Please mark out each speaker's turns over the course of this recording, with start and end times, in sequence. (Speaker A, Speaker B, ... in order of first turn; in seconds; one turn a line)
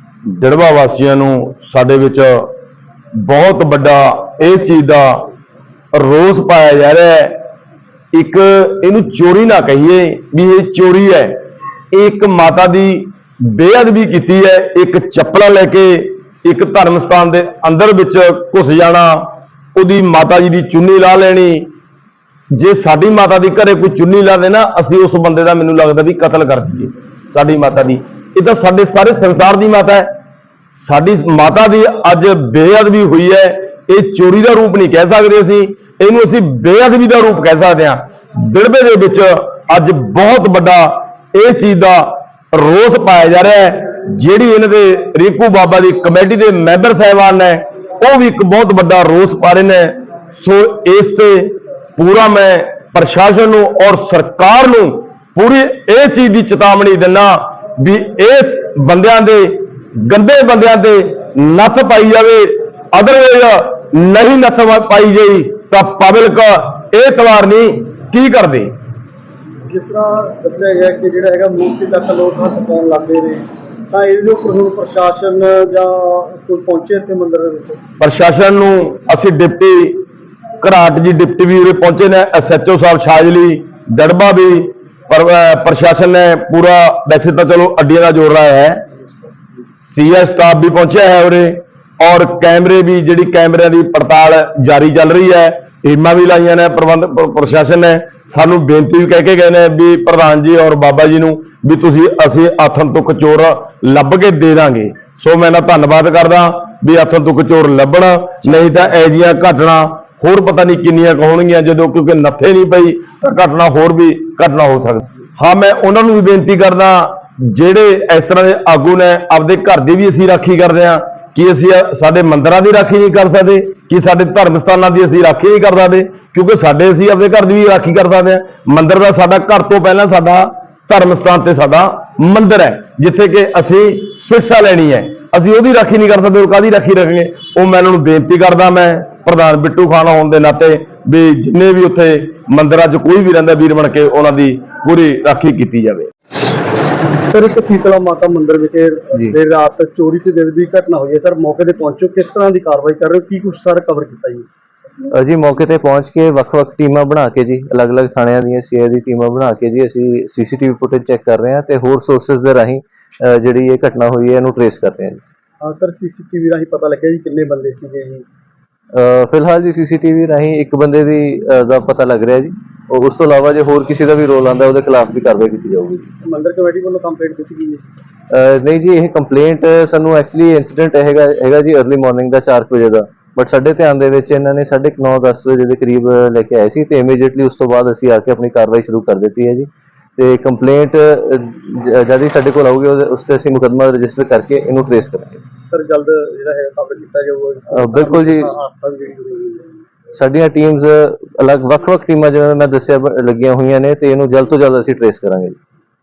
Speaker A: 0.3-2.5
Speaker A: 3.2-5.2
Speaker A: 5.9-7.4
Speaker A: 8.1-11.4
Speaker A: 11.9-21.7
Speaker A: 22.5-30.1
Speaker A: 30.7-68.7
Speaker B: 69.7-77.8
Speaker A: 78.0-80.0
Speaker A: 80.6-88.8
Speaker A: 89.9-146.1
Speaker B: 147.0-154.5
Speaker C: 155.1-165.2
Speaker B: 165.6-168.2
Speaker C: 168.9-176.1
Speaker B: 176.2-177.9
Speaker C: 178.3-195.4
Speaker B: 195.7-199.7
Speaker C: 197.7-198.5
Speaker C: 200.2-205.6